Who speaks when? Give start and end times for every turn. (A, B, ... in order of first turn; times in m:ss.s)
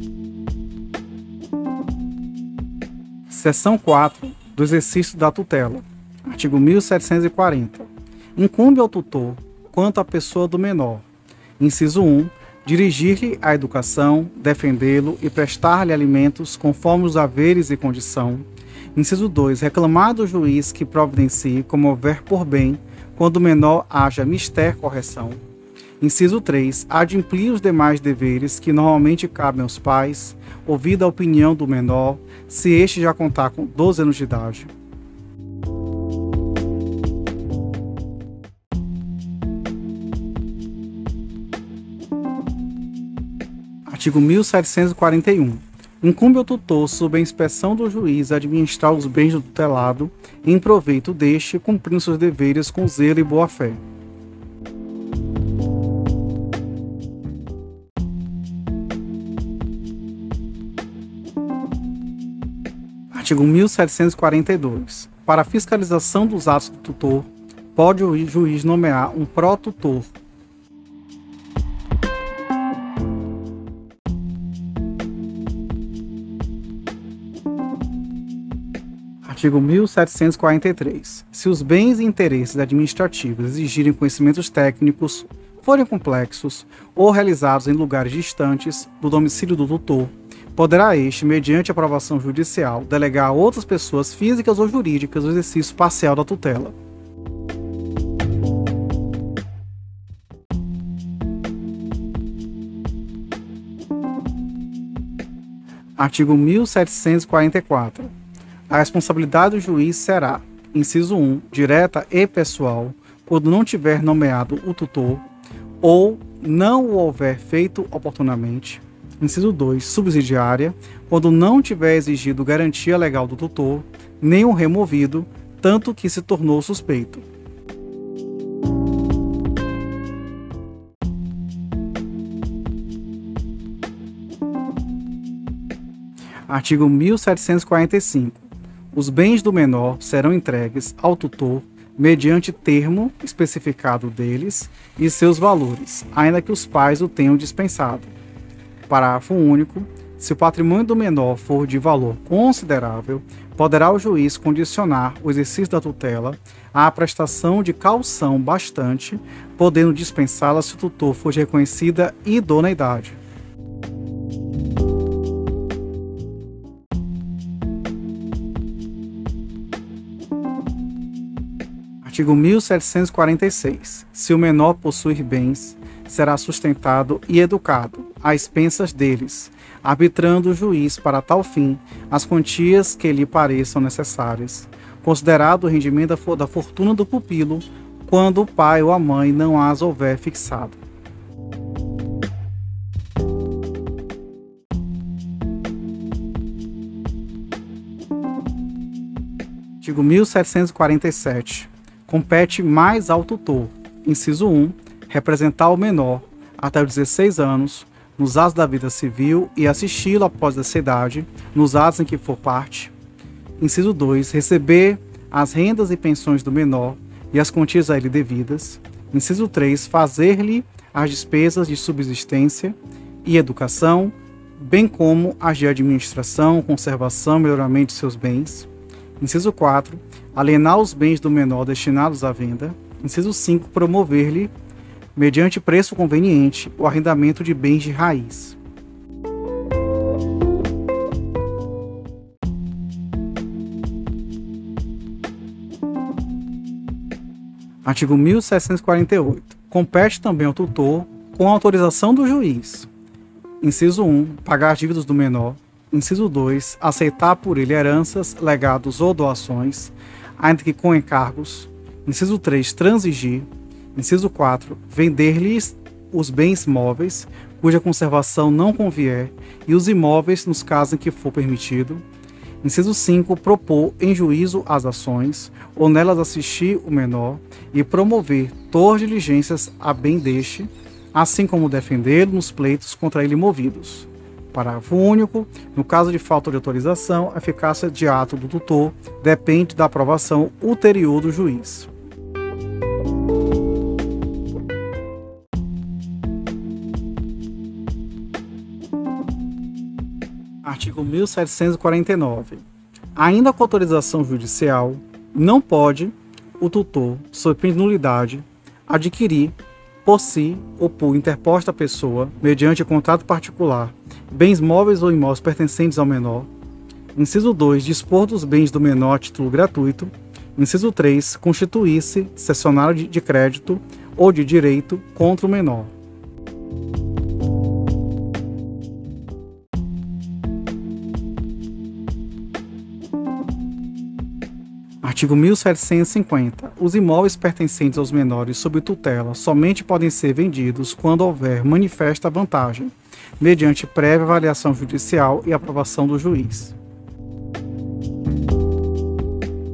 0:03.3-0:11.0 A
0:11.6-0:25.4 A
0:26.0-0:34.7 A
0:43.9-0:53.8 A
1:03.1-1:10.1 A
1:19.2-1:36.8 A
1:46.0-1:48.1 A
1:48.7-1:55.2 A
1:55.8-2:07.2 A
2:16.5-2:28.1 A
2:28.9-2:43.2 A
2:52.0-3:10.8 A
3:19.8-3:32.9 A
3:33.6-3:48.7 A
3:49.2-3:54.5 A
3:55.2-3:58.6 A
4:07.8-4:12.9 A
4:13.6-4:32.0 A
4:32.6-4:51.9 A
5:00.6-5:02.6 A
5:03.2-5:16.5 A
5:17.2-5:25.9 A
5:35.0-5:46.8 A